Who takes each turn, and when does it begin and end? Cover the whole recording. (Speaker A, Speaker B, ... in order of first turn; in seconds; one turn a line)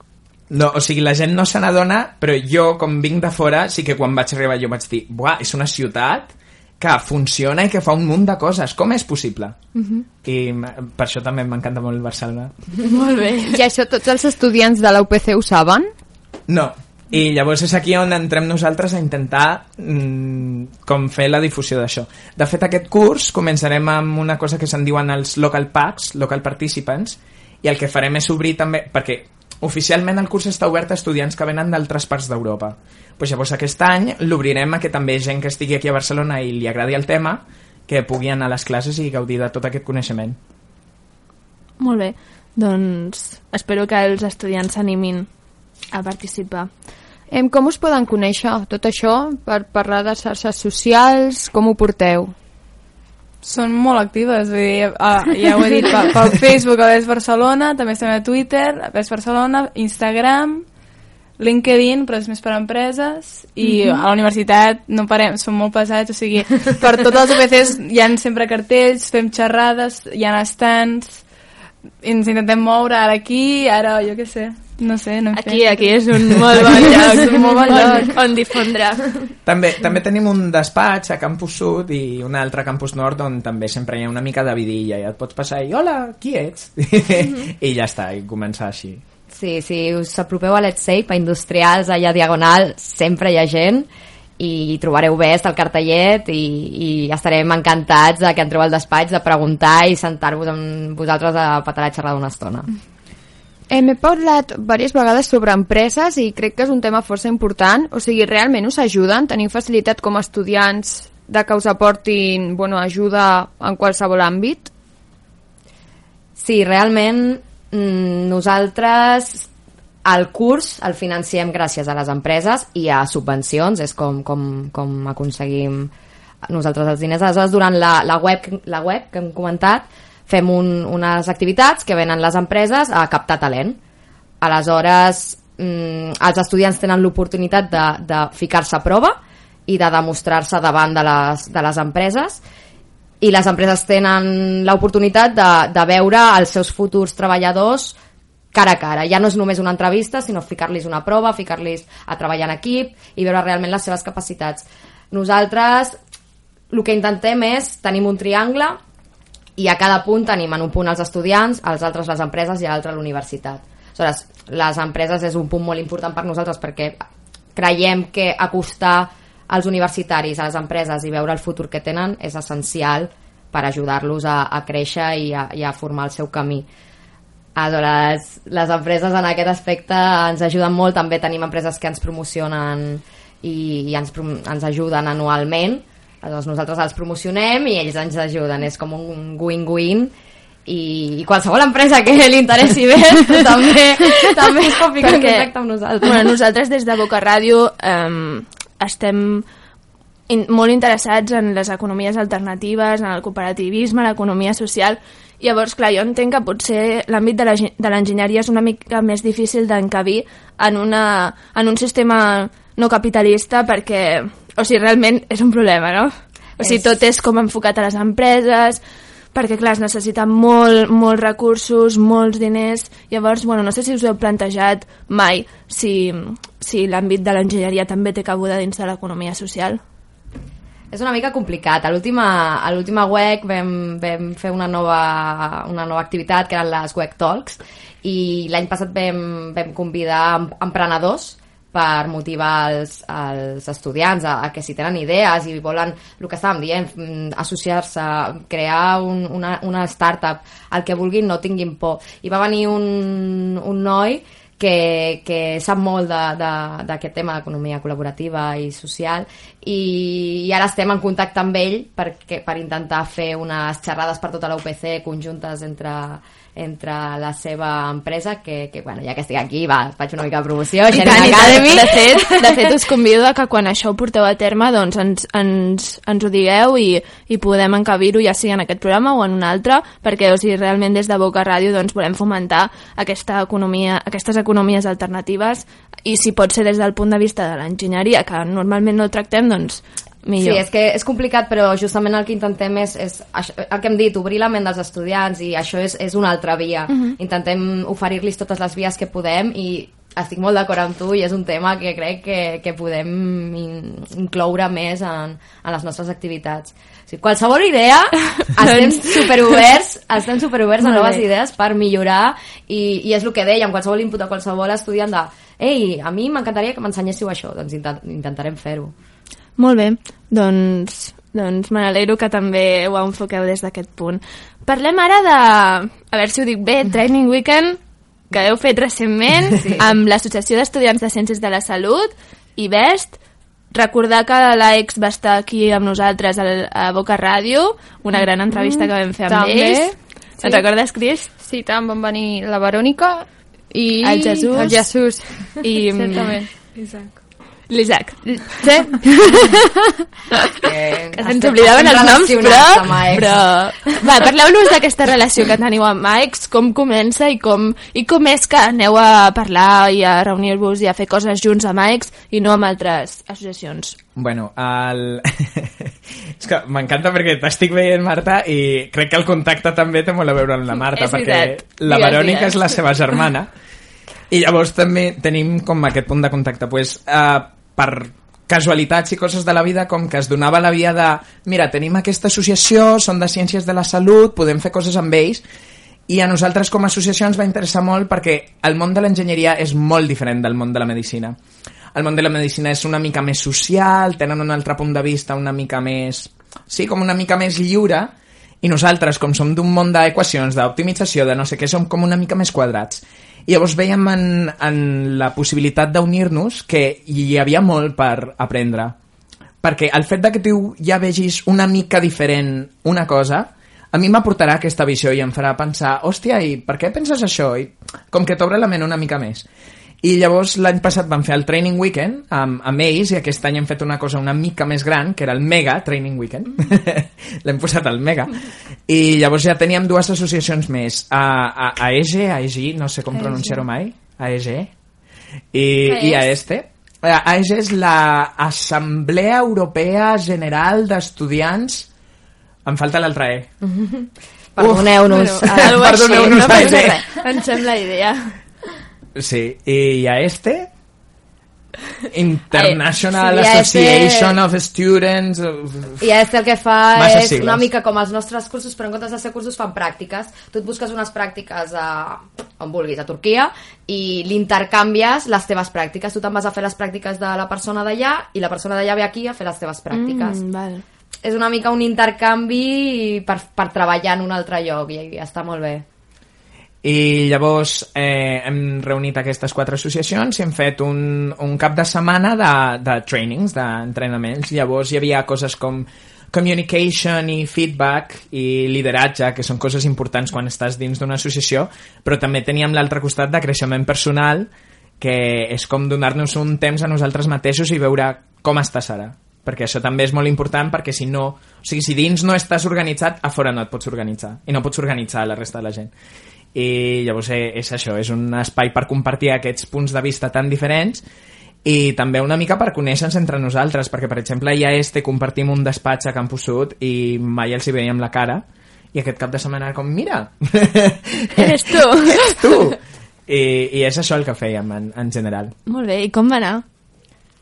Speaker A: 0.5-9.6
Speaker A: 10.2-12.5
Speaker B: 12.9-13.6
Speaker C: 13.5-15.9
Speaker A: 16.5-40.4
Speaker B: 41.8-45.3
Speaker B: 45.9-46.7
Speaker C: 47.3-52.3
Speaker D: 53.4-60.6
Speaker D: 61.4-71.2
Speaker D: 72.0-78.1
Speaker B: 75.3-79.2
Speaker A: 79.4-89.0
Speaker E: 89.3-93.9
Speaker E: 94.4-102.7
Speaker C: 103.7-114.7
Speaker E: 116.4-119.5
Speaker E: 120.0-125.9
Speaker E: 126.5-133.8
Speaker E: 134.4-142.4
Speaker E: 143.2-148.0
Speaker E: 148.5-156.0
Speaker E: 156.7-158.8
Speaker E: 159.6-167.0
Speaker E: 167.6-176.7
Speaker E: 177.6-190.1
Speaker E: 190.7-196.3
Speaker B: 195.0-195.5
Speaker B: 196.0-199.4
Speaker B: 200.3-218.8
Speaker B: 219.3-229.8
Speaker E: 230.9-272.4
Speaker B: 270.9-290.6
Speaker E: 290.4-318.9
Speaker B: 296.9-297.2
Speaker B: 308.6-309.5
Speaker B: 310.8-311.2
Speaker B: 319.6-327.8
Speaker B: 328.3-333.2
Speaker B: 333.7-341.3
Speaker C: 338.5-340.6
Speaker C: 341.4-347.1
Speaker B: 344.0-344.9
Speaker B: 345.6-346.4
Speaker B: 347.7-349.6
Speaker C: 348.6-349.6
Speaker E: 350.6-353.3
Speaker B: 351.2-364.0
Speaker A: 364.1-373.5
Speaker B: 370.9-373.1
Speaker A: 374.3-385.4
Speaker A: 386.1-391.4
Speaker A: 391.9-408.9
Speaker A: 409.6-419.4
Speaker A: 420.0-434.7
Speaker A: 435.5-441.9
Speaker E: 435.9-436.3
Speaker A: 442.6-443.5
Speaker E: 443.6-446.8
Speaker A: 444.6-447.0
Speaker B: 445.1-448.4
Speaker A: 449.1-450.7
Speaker A: 452.1-456.0
Speaker E: 453.1-454.4
Speaker E: 456.0-470.4
Speaker A: 456.9-457.6
Speaker B: 469.9-470.8
Speaker E: 471.2-475.8
Speaker A: 476.8-505.9
Speaker A: 506.5-511.0
Speaker A: 511.6-525.5
Speaker B: 521.3-522.7
Speaker B: 525.7-526.6